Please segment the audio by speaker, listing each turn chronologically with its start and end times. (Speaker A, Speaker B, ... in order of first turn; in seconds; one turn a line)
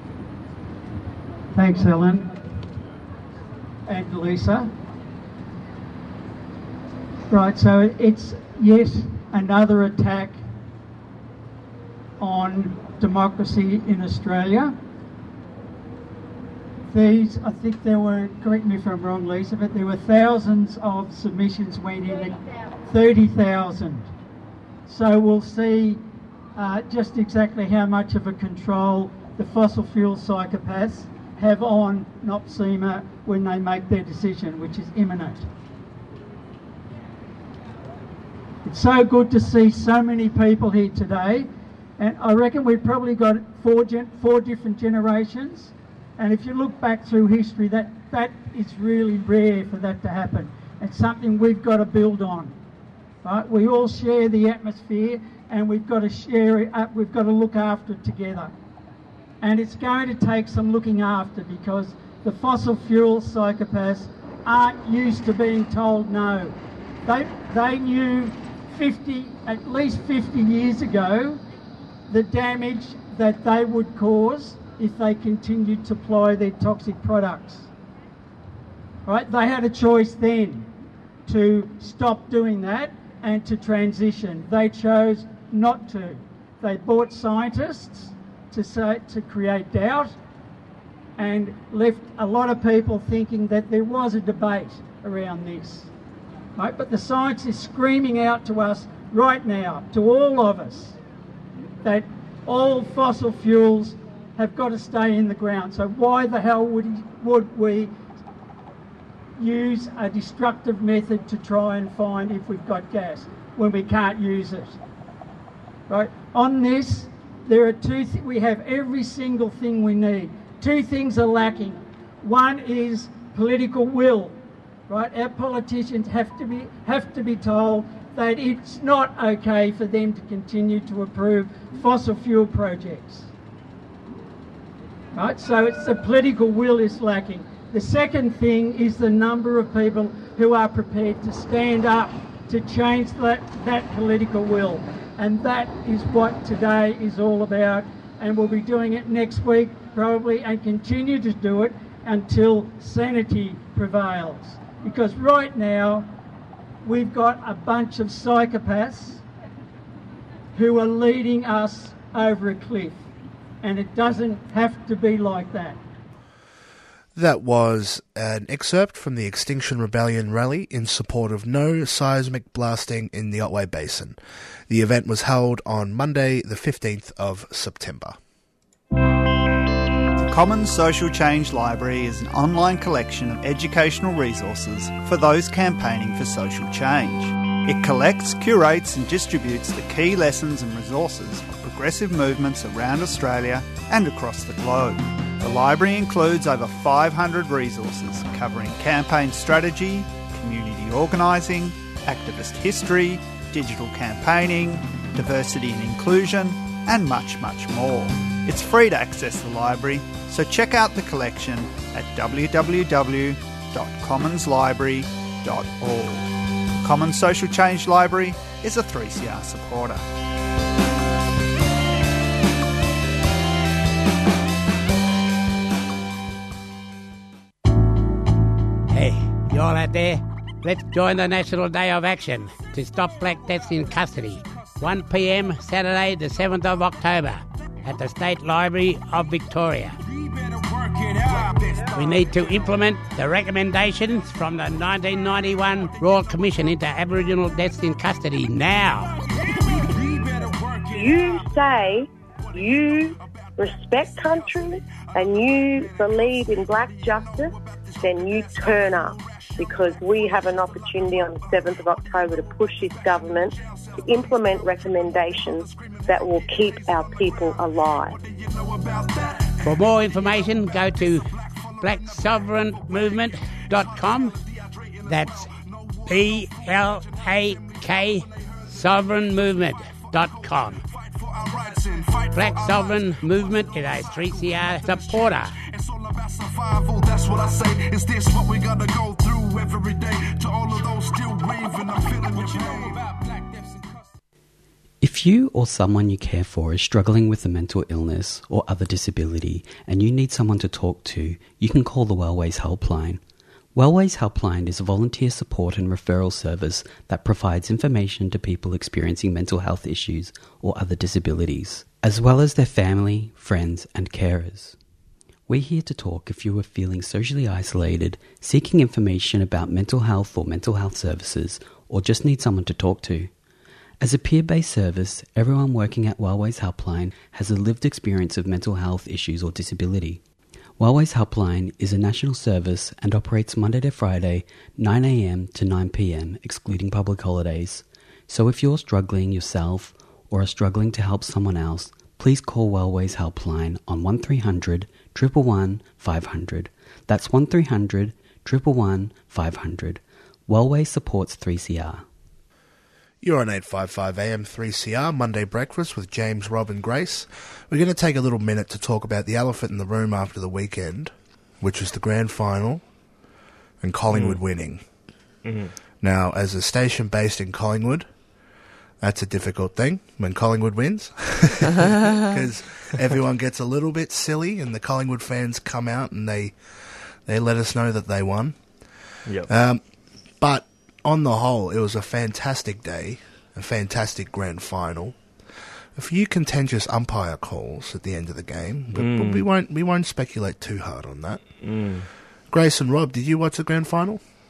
Speaker A: 1.5-2.3
Speaker A: 3.9-4.7
Speaker A: 7.3-10.4
Speaker A: 12.2-14.8
Speaker A: 16.9-24.1
Speaker A: 24.9-26.0
Speaker A: 26.6-35.5
Speaker A: 38.6-52.6
Speaker A: 53.2-58.5
Speaker A: 59.4-71.4
Speaker A: 72.1-77.7
Speaker A: 79.0-80.7
Speaker A: 81.2-90.2
Speaker A: 91.2-95.9
Speaker A: 96.5-101.0
Speaker A: 101.8-107.9
Speaker A: 109.4-114.8
Speaker A: 115.9-124.3
Speaker A: 124.9-133.3
Speaker A: 135.1-156.1
Speaker A: 156.8-159.2
Speaker A: 160.5-163.0
Speaker A: 163.6-165.8
Speaker B: 167.1-178.2
Speaker C: 180.2-220.1
Speaker D: 228.9-239.9
Speaker E: 240.0-242.3
Speaker D: 241.9-249.1
Speaker E: 249.2-251.3
Speaker F: 250.9-268.2
Speaker E: 257.7-258.1
Speaker E: 265.6-266.0
Speaker E: 268.2-269.7
Speaker D: 269.6-274.3
Speaker E: 274.6-274.9
Speaker D: 275.1-275.4
Speaker D: 276.1-280.8
Speaker E: 280.9-294.1
Speaker D: 282.3-285.5
Speaker G: 295.0-303.2
Speaker G: 303.7-314.8
Speaker G: 315.5-323.4
Speaker G: 324.0-330.2
Speaker G: 330.8-352.0
Speaker B: 353.2-362.9
Speaker B: 363.8-364.8
Speaker H: 364.1-364.9
Speaker H: 365.4-365.7
Speaker B: 366.0-368.3
Speaker B: 369.0-392.0
Speaker H: 388.9-389.5
Speaker H: 391.6-392.1
Speaker B: 392.5-394.2